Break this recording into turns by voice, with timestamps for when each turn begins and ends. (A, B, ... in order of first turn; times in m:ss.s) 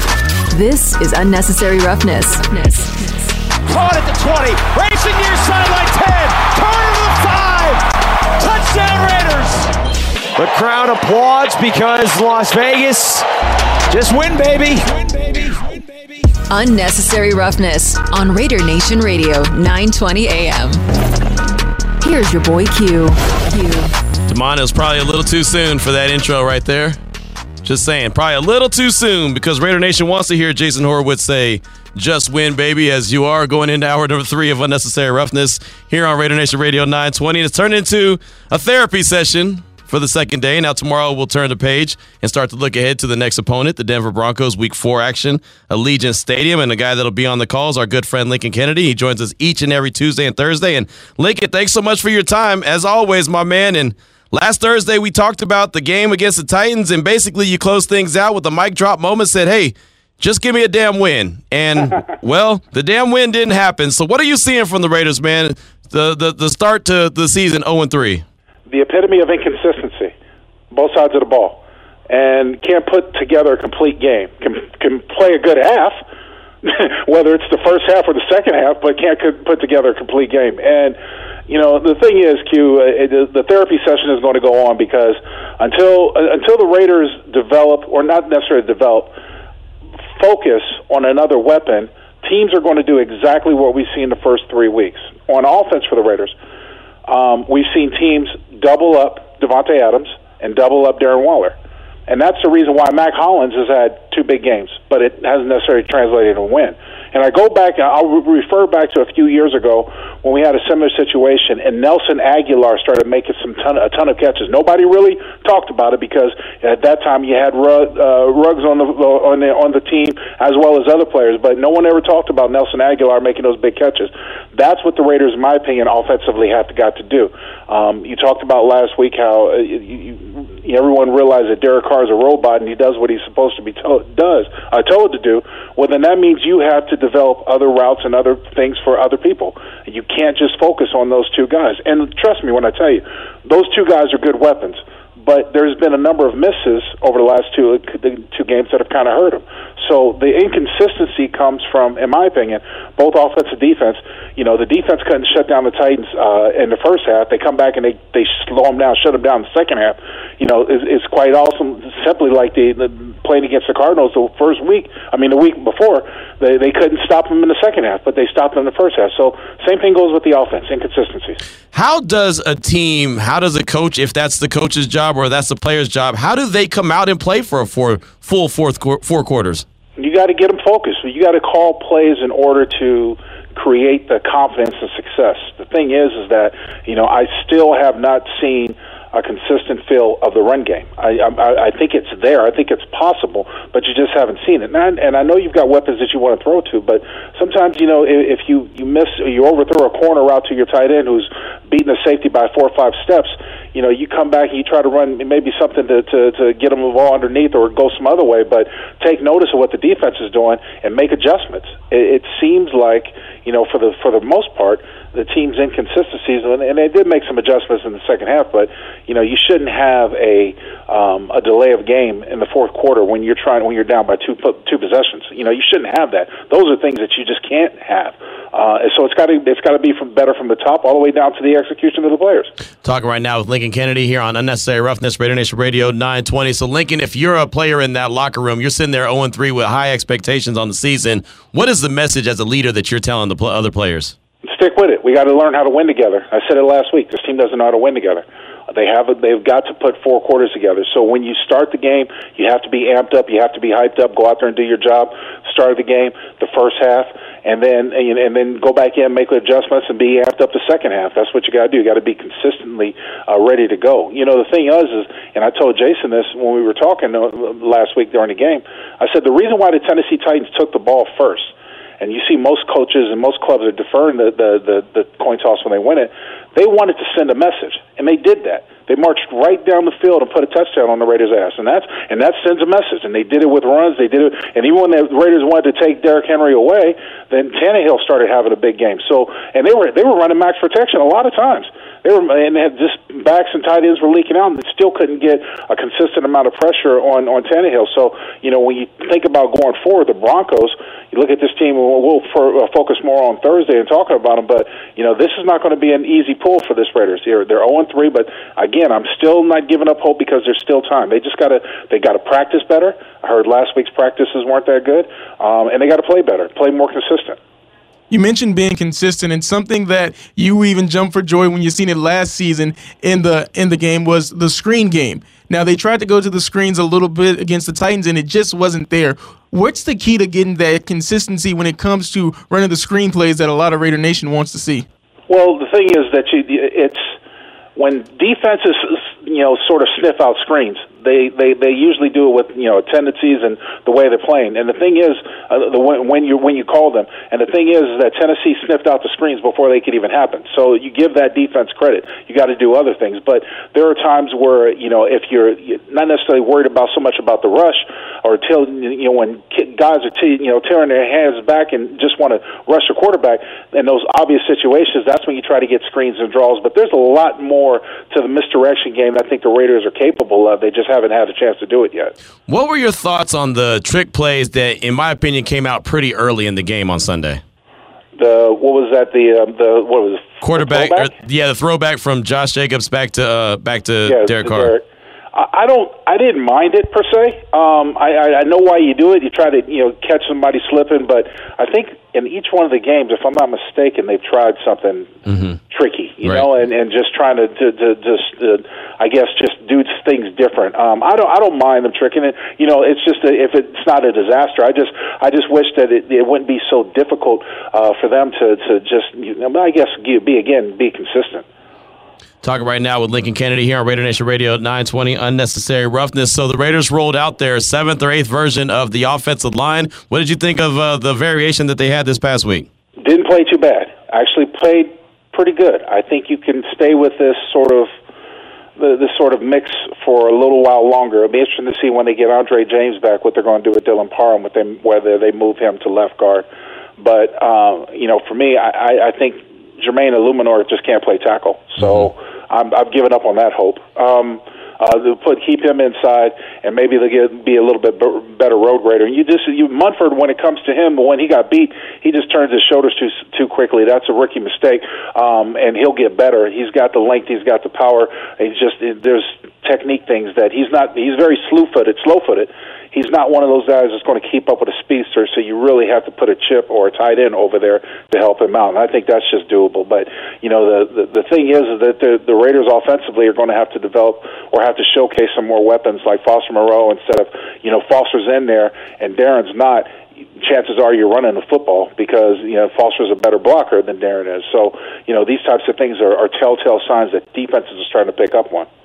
0:00.5-0:03.4 A
0:03.7-0:07.8 B
0:08.4-0:09.7 B
0:10.4-0:13.2 B
0:13.9-0:16.2 B
0:16.5-0:20.8 A
0:22.0-0:23.9 A
0:24.3-0:27.0 C
0:27.6-1:08.2 C
1:08.7-1:10.1 D
1:10.7-1:16.0 D
1:16.6-1:21.0 D
1:21.5-1:29.1 D
1:30.2-1:36.3 D
1:37.1-1:41.5 D
1:42.1-2:51.4 D
2:51.7-2:59.6 C
3:00.0-3:52.5 D
3:52.8-4:04.2 C
4:04.4-5:17.4 D
5:18.1-5:34.8 E
5:35.3-5:37.1 D
5:37.8-6:12.1 D
6:12.5-6:17.4 C
6:18.1-6:21.1 D
6:20.4-6:24.7 C
6:24.0-6:35.1 D
6:35.2-6:35.6 C
6:35.7-6:51.4 D
6:36.2-6:36.5 C
6:52.4-7:02.7 C
7:03.0-7:07.9 D
7:08.8-7:16.4 D
7:17.0-8:08.7 D